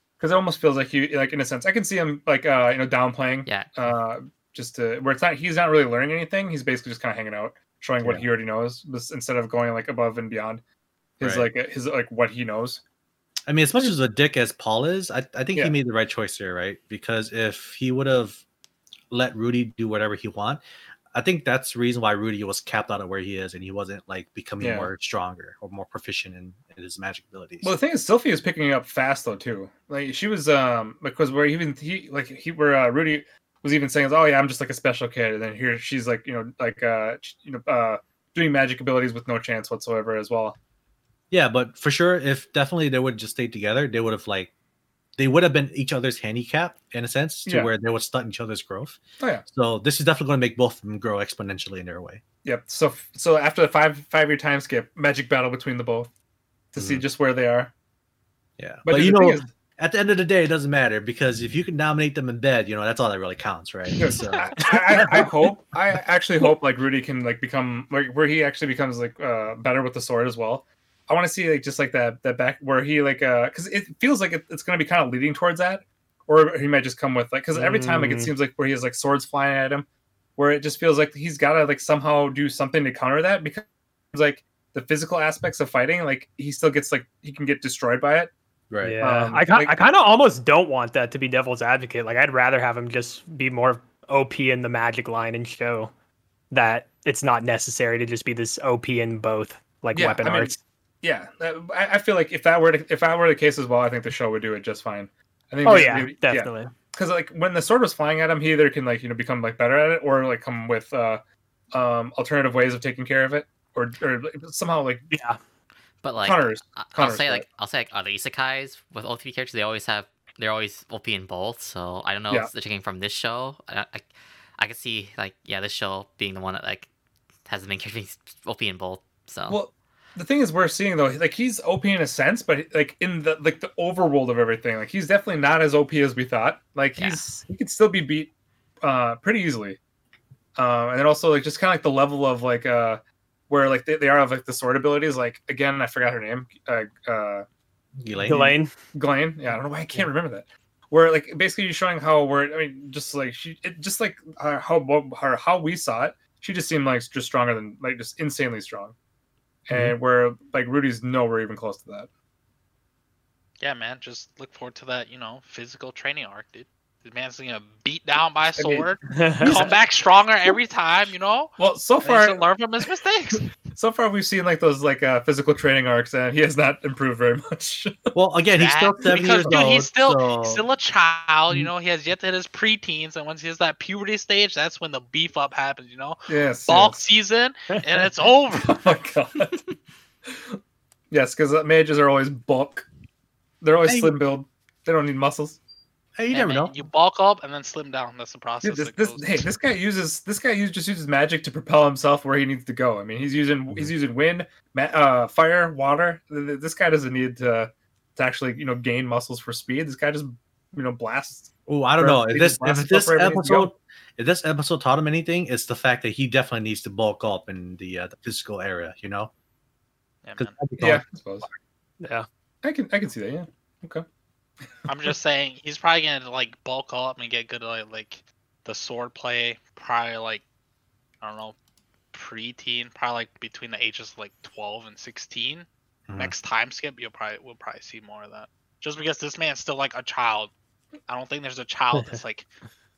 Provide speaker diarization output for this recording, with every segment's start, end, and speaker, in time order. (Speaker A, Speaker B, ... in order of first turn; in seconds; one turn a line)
Speaker A: 0.2-10.6
Speaker B: 3.5-3.8
Speaker A: 11.2-12.8
Speaker C: 11.2-11.5
Speaker C: 13.5-18.4
Speaker C: 19.1-27.7
Speaker A: 24.6-24.9
Speaker A: 27.6-40.6
Speaker C: 41.3-44.5
Speaker C: 45.2-52.2
Speaker A: 47.5-47.7
Speaker A: 52.4-56.1
Speaker A: 56.7-57.7
Speaker C: 56.8-57.0
Speaker C: 58.6-65.4
Speaker A: 58.8-59.5
Speaker A: 64.0-88.3
Speaker D: 77.5-78.3
Speaker C: 88.7-89.0
Speaker D: 88.8-95.9
Speaker A: 89.0-89.8
Speaker D: 96.5-100.6
Speaker A: 99.9-111.2
Speaker D: 105.6-106.7
Speaker A: 111.7-115.1
Speaker D: 115.1-115.4
Speaker B: 116.0-124.0
Speaker A: 116.2-117.5
Speaker B: 124.6-126.9
Speaker B: 127.5-129.6
Speaker A: 129.5-138.3
Speaker B: 137.0-137.2
Speaker A: 138.8-139.8
Speaker A: 140.6-147.4
Speaker C: 148.0-148.5
Speaker D: 148.2-148.7
Speaker A: 148.9-158.9
Speaker A: 159.7-162.1
Speaker E: 163.6-173.5
Speaker A: 168.6-168.9
Speaker D: 169.1-169.7
Speaker A: 171.6-172.4
Speaker A: 173.7-177.9
Speaker C: 178.1-180.6
Speaker E: 178.6-188.8
Speaker A: 186.3-187.0
Speaker A: 188.6-189.6
Speaker A: 191.1-192.9
Speaker A: 193.6-195.6
Speaker C: 193.8-194.2
Speaker C: 196.2-196.8
Speaker E: 196.3-199.3
Speaker A: 198.6-213.7
Speaker C: 211.7-219.3
Speaker E: 220.2-220.5
Speaker C: 220.4-221.0
Speaker A: 220.8-221.5
Speaker D: 222.0-222.3
Speaker A: 222.6-224.0
Speaker E: 224.9-230.4
Speaker E: 231.2-231.6
Speaker E: 232.1-235.7
Speaker C: 236.1-236.3
Speaker E: 236.2-240.5
Speaker E: 241.1-242.5